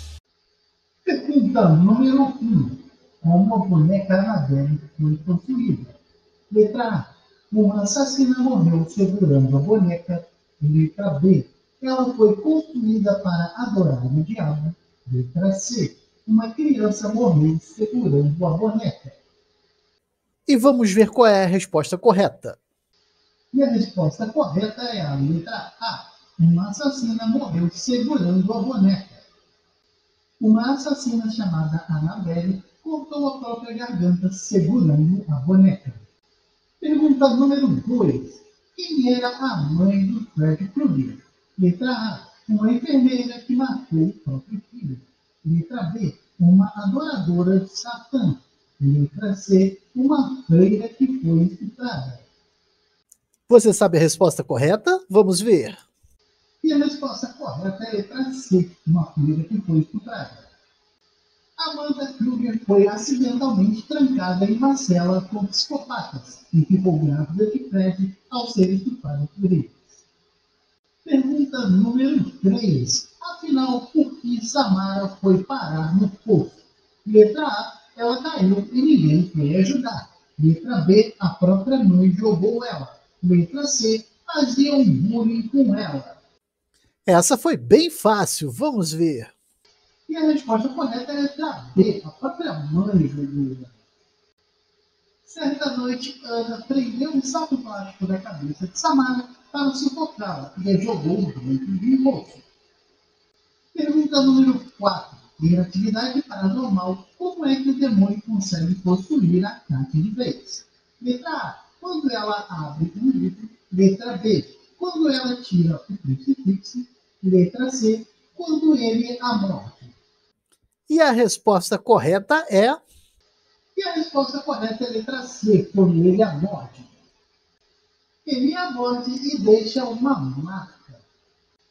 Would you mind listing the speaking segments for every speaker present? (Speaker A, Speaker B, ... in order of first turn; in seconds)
Speaker A: 1.1-6.0, 6.5-19.2, 23.5-29.2, 30.4-36.0, 36.8-52.2, 56.6-60.5, 61.6-69.8, 71.0-86.2, 90.1-93.8, 95.2-102.5, 103.7-119.9, 123.8-126.9, 128.2-131.0
Speaker B: 20.5-22.6, 53.5-55.8, 87.1-89.3, 120.9-122.8